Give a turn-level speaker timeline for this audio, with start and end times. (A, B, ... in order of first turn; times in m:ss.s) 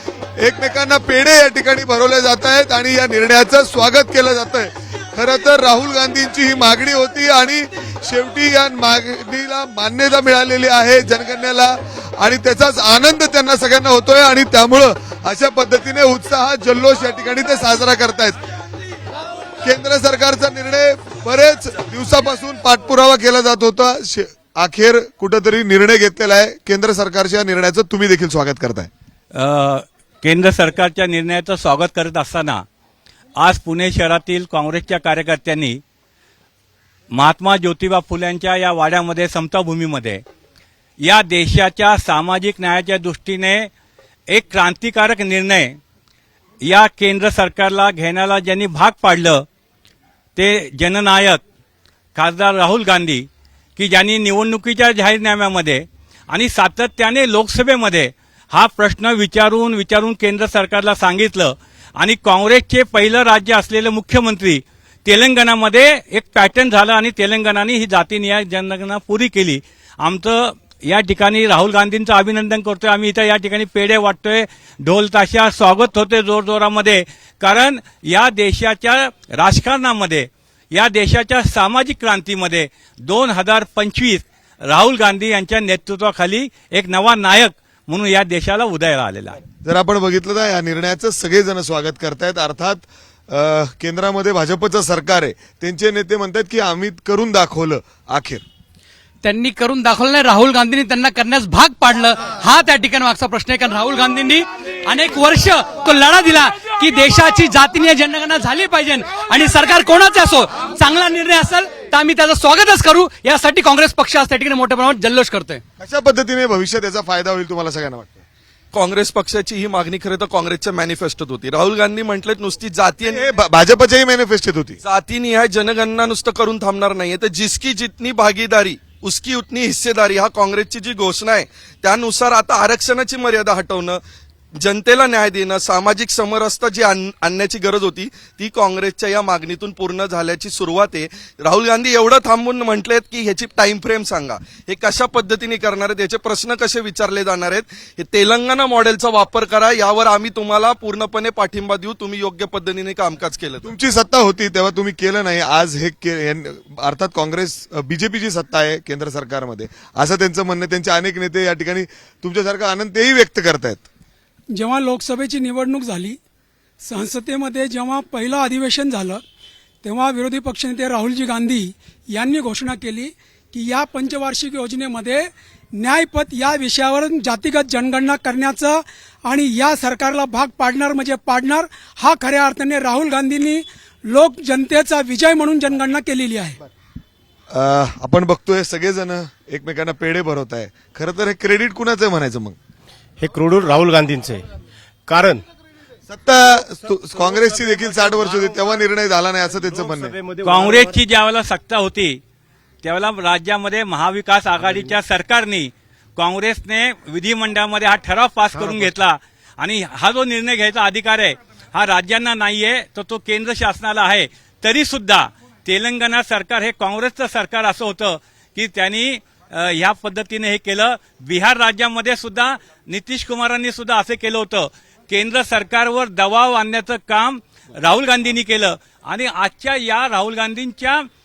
0:00.4-0:18.4 A
0:19.6-0:28.9 A
0:29.4-0:32.6 B
0:33.4-0:35.8 B
0:37.1-0:40.2 B
0:41.0-0:43.7 B
0:44.3-0:45.8 B
0:46.6-0:49.4 B
0:50.4-0:51.4 B
0:52.2-1:29.4 B
1:29.6-1:38.4 A
1:39.2-1:55.6 C
1:55.8-1:58.2 A
1:58.7-2:03.2 D
2:03.1-2:04.8 A
2:04.8-2:14.0 D
2:14.6-2:33.7 D
2:33.6-2:43.9 A
2:44.6-2:46.2 E
2:46.8-2:49.2 E
2:49.8-3:06.6 E
3:07.5-3:12.6 A
3:13.2-3:14.5 F
3:15.1-3:15.4 F
3:16.1-3:20.2 A
3:16.6-3:18.9 F
3:19.4-3:21.0 F
3:20.4-3:22.2 B
3:22.8-3:51.0 B
3:24.6-3:24.9 F
3:28.5-3:28.9 F